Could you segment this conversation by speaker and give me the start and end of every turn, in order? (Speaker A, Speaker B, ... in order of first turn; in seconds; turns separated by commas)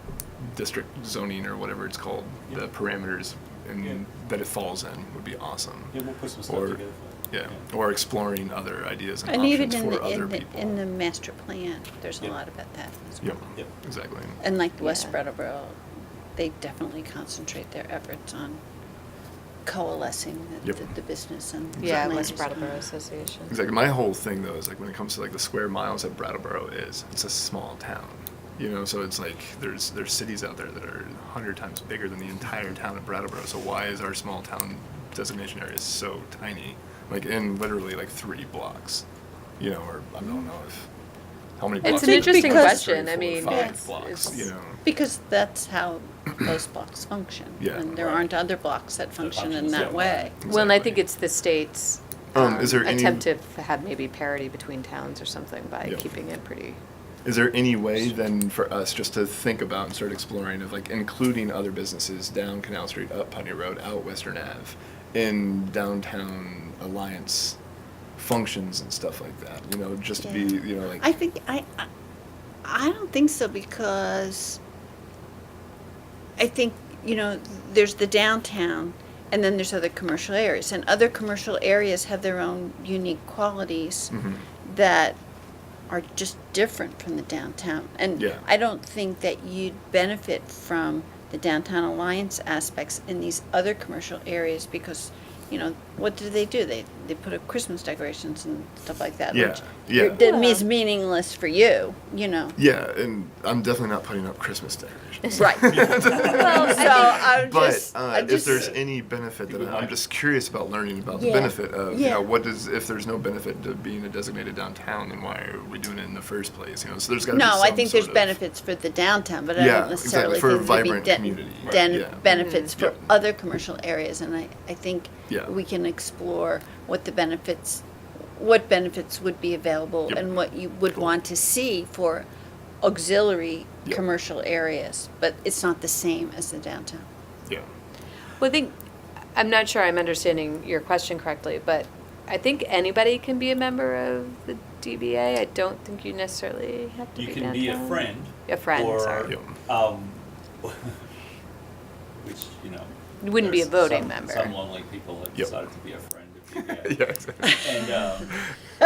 Speaker A: 0.4-10.8, Speaker B: 3.8-4.0, Speaker B: 5.9-7.7, Speaker C: 9.3-13.4, Speaker A: 13.2-14.4, Speaker C: 14.4-15.8, Speaker D: 14.8-15.2, Speaker C: 16.4-18.6, Speaker C: 19.6-22.8, Speaker A: 20.6-20.9, Speaker A: 21.7-22.6, Speaker D: 21.8-23.5, Speaker A: 23.5-39.0, Speaker A: 39.6-40.9, Speaker A: 41.6-44.8, Speaker D: 41.8-44.5, Speaker C: 41.8-43.8, Speaker C: 44.8-50.3, Speaker A: 47.6-48.3, Speaker B: 49.2-50.5, Speaker A: 50.4-51.0, Speaker D: 50.5-56.8, Speaker A: 52.3-53.3, Speaker A: 55.8-56.1, Speaker A: 57.2-67.6, Speaker A: 68.2-71.1, Speaker C: 70.2-71.9, Speaker C: 72.6-74.6, Speaker C: 76.4-84.1, Speaker A: 84.1-84.4, Speaker C: 84.6-85.2, Speaker C: 85.9-102.5, Speaker A: 88.2-88.4, Speaker A: 99.3-100.2, Speaker D: 100.0-100.7, Speaker A: 102.5-118.4, Speaker C: 105.3-108.7, Speaker B: 105.6-107.0, Speaker D: 106.2-107.4, Speaker B: 108.2-108.8, Speaker B: 109.4-110.0, Speaker C: 111.1-112.3, Speaker C: 117.3-127.8, Speaker A: 119.5-123.1, Speaker B: 121.6-122.0, Speaker D: 122.2-122.7, Speaker C: 128.3-132.3, Speaker C: 132.8-137.0, Speaker D: 138.4-138.7, Speaker D: 139.3-149.3, Speaker B: 147.2-151.0, Speaker A: 149.3-149.5, Speaker B: 152.2-158.4, Speaker D: 153.2-154.6, Speaker A: 156.5-158.5